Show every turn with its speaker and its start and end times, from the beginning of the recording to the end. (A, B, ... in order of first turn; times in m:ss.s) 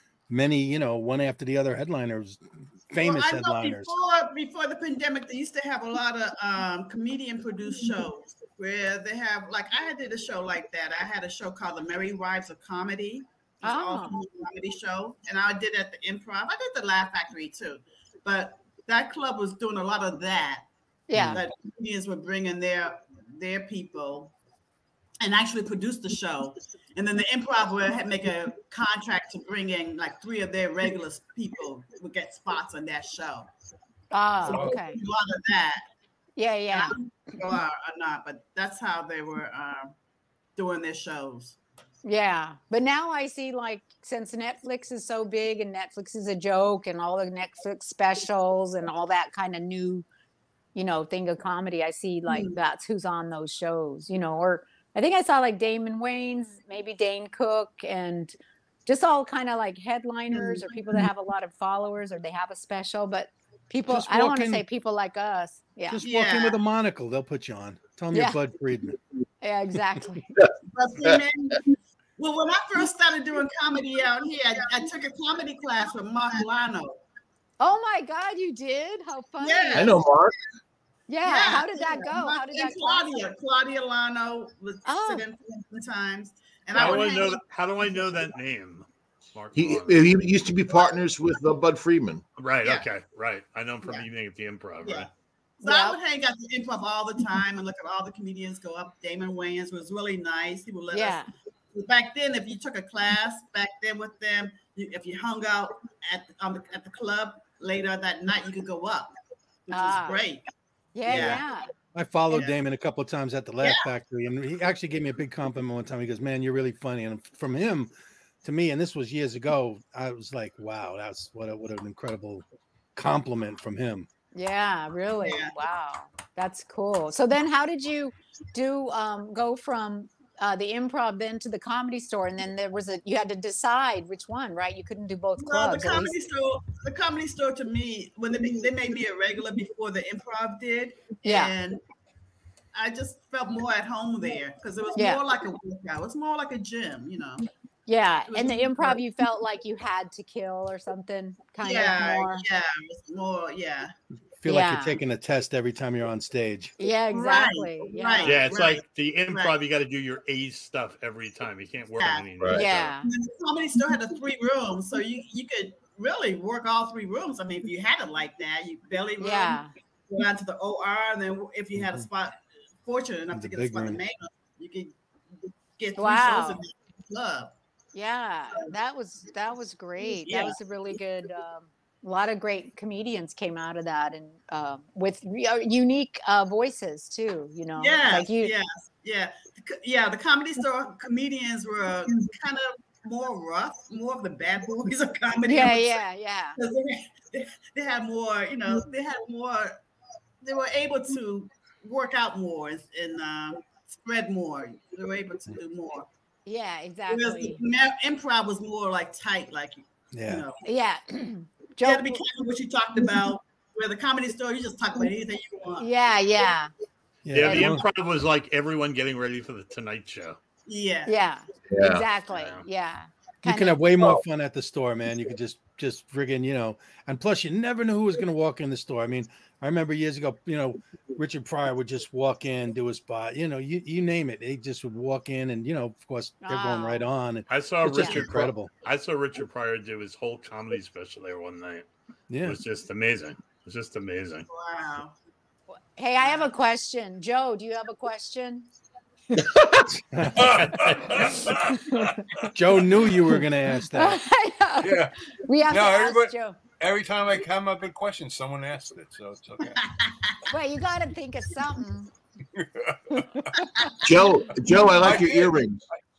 0:00.3-0:03.9 A
0:03.0-0:20.7 B
0:13.6-0:14.1 C
0:21.1-0:21.4 C
0:21.1-0:21.4 A
0:21.3-0:24.3 B
0:25.2-0:33.5 B
0:34.1-0:35.0 C
0:34.4-0:35.8 B
0:36.4-0:37.0 C
0:36.7-0:39.9 B
0:40.6-0:41.6 B
0:42.0-0:50.0 C
0:50.7-0:58.3 C
0:52.3-0:52.6 B
0:58.8-1:06.0 C
1:00.3-1:00.6 B
1:03.9-1:04.6 A
1:05.9-1:09.0 A
1:06.0-1:06.6 B
1:08.1-1:08.4 C
1:09.4-1:10.3 C
1:10.4-1:11.2 D
1:10.7-1:11.6 B
1:12.2-1:17.0 B
1:17.6-1:19.9 C
1:19.4-1:20.0 B
1:19.7-1:20.3 D
1:21.1-1:23.1 C
1:21.2-1:27.4 B
1:24.8-1:25.2 C
1:26.7-1:30.1 E
1:29.6-1:32.2 D
1:32.4-1:35.1 E
1:34.8-1:35.1 B
1:35.6-1:41.2 B
1:35.6-1:36.0 C
1:40.9-1:41.3 C
1:41.7-1:49.1 B
1:49.7-1:50.4 B
1:49.7-1:50.2 C
1:50.9-1:51.7 C
1:51.0-1:51.5 B
1:51.1-1:51.4 A
1:51.9-1:57.9 A
1:53.6-1:53.9 B
1:58.4-2:02.4 A
2:03.0-2:04.1 A
2:04.3-2:16.2 C
2:05.2-2:05.5 B
2:15.4-2:21.8 B
2:21.2-2:21.5 C
2:22.7-2:27.5 B
2:25.0-2:25.2 C
2:27.9-2:32.4 C
2:28.3-2:29.0 B
2:31.6-2:33.9 B
2:34.4-2:36.7 A
2:34.5-2:35.0 C
2:36.8-2:38.4 C
2:37.1-2:39.5 B
2:38.2-2:42.9 E
2:42.0-2:42.3 B
2:42.5-2:43.1 C
2:43.0-2:57.5 B
2:49.2-2:49.7 C
2:51.8-2:52.1 A
2:53.3-2:54.0 A
2:56.0-2:56.6 C
2:57.9-3:08.5 C
3:00.0-3:00.6 B
3:07.8-3:16.0 B
3:15.4-3:16.6 C
3:16.6-3:19.8 B
3:20.4-3:26.1 B
3:26.4-3:27.6 C
3:27.1-3:30.6 B
3:30.1-3:30.4 A
3:30.6-3:32.2 C
3:31.8-3:35.9 B
3:35.8-3:36.7 C
3:37.2-3:37.8 A
3:37.3-3:40.4 E
3:37.4-3:37.8 C
3:40.7-3:41.1 B
3:41.0-3:43.8 C
3:41.7-3:42.0 D
3:42.3-3:42.6 E
3:43.4-3:58.7 A
3:56.4-3:57.0 C
3:57.5-4:01.9 E
4:02.3-4:02.6 A
4:02.4-4:04.5 E
4:04.5-4:05.1 B
4:05.7-4:08.7 C
4:06.2-4:06.5 B
4:09.4-4:09.8 F
4:09.9-4:10.7 A
4:10.3-4:12.5 F
4:10.6-4:11.5 E
4:11.9-4:12.2 C
4:12.5-4:14.2 A
4:13.9-4:16.6 C
4:14.8-4:15.1 F
4:15.7-4:19.8 F
4:19.8-4:20.3 B
4:20.5-4:22.1 C
4:22.5-4:23.6 F
4:23.1-4:23.9 C
4:24.0-4:25.8 D
4:24.7-4:25.6 F